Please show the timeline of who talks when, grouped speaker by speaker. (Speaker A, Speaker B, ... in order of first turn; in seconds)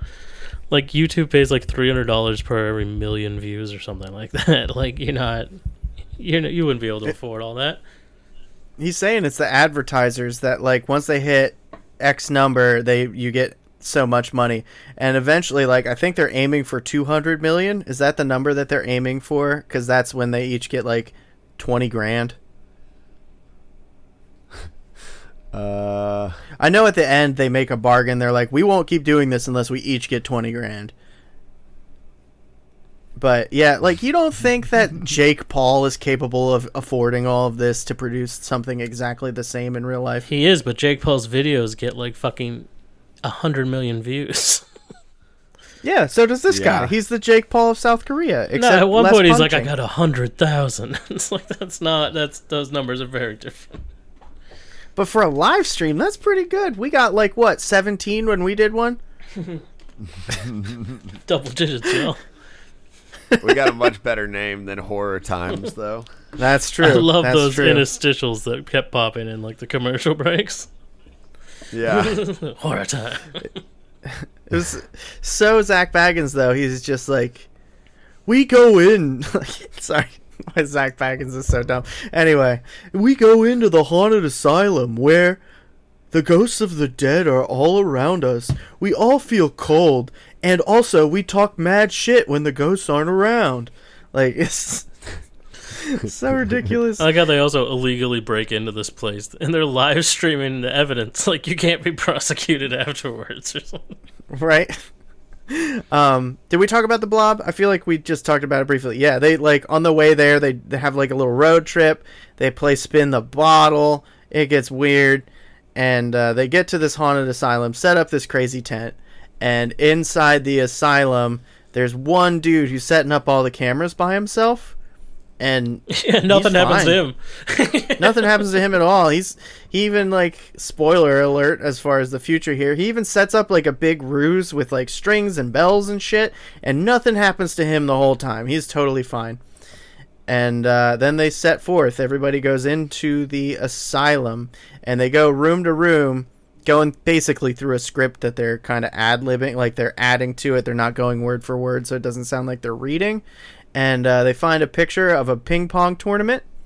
Speaker A: 0.7-5.5, 6.2-7.8, 40.3-42.7, 43.2-44.6, 48.5-53.8, 61.2-62.2, 66.8-70.7, 71.9-73.5, 97.0-104.0, 125.9-128.5
Speaker B: 8.8-22.4, 26.6-30.9, 33.2-40.2, 45.8-49.7, 55.0-59.0, 66.4-67.8, 74.0-77.5, 78.2-85.4, 86.1-94.9, 95.7-97.1, 104.3-104.8, 105.5-124.7, 125.4-127.0, 128.0-139.4, 140.3-156.4
Speaker C: 25.5-26.4, 46.5-46.9, 60.1-61.1, 63.4-66.1, 71.7-72.2